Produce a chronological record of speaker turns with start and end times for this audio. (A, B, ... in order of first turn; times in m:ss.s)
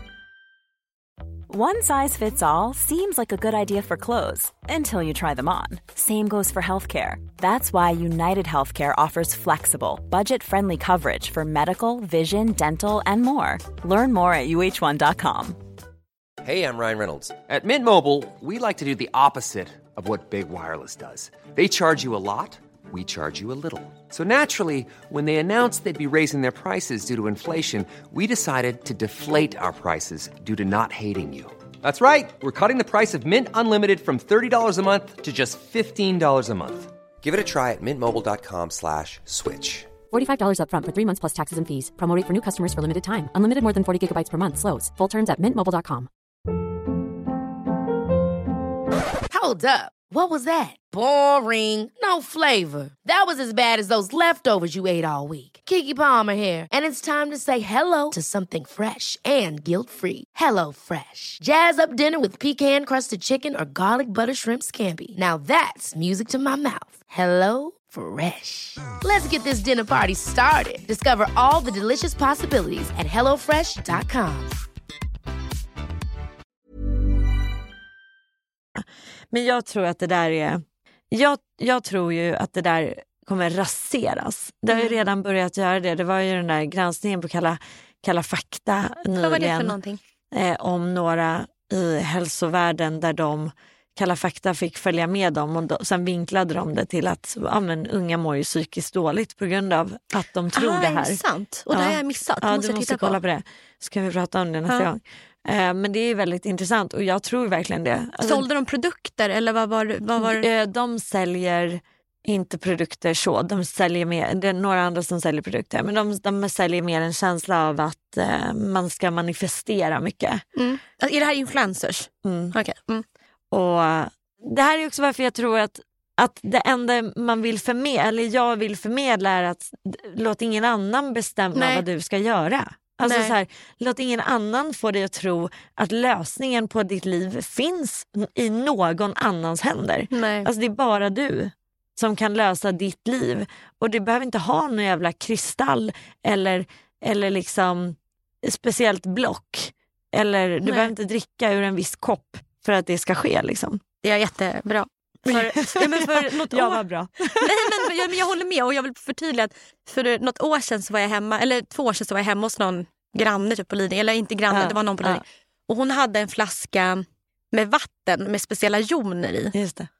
0:01.5-0:15.6 A
0:16.4-0:39.9 B
0:40.1-0:46.1 C
0:49.3-1:14.6 D
1:18.8-1:29.8 E
1:24.7-1:25.0 F
1:29.2-1:30.0 F
1:30.3-1:41.2 E
1:40.5-1:43.2 F
1:41.7-1:48.5 E
1:48.2-1:50.5 F
1:50.2-2:00.4 E
2:00.6-2:03.0 F
2:02.2-2:02.5 E
2:03.5-2:33.8 E
2:11.5-2:11.8 F
2:13.0-2:13.4 F
2:20.1-2:20.5 F
2:30.6-2:30.9 F
2:34.0-2:49.5 F
2:35.2-2:37.9 E
2:44.5-2:45.2 E
2:49.5-2:49.9 E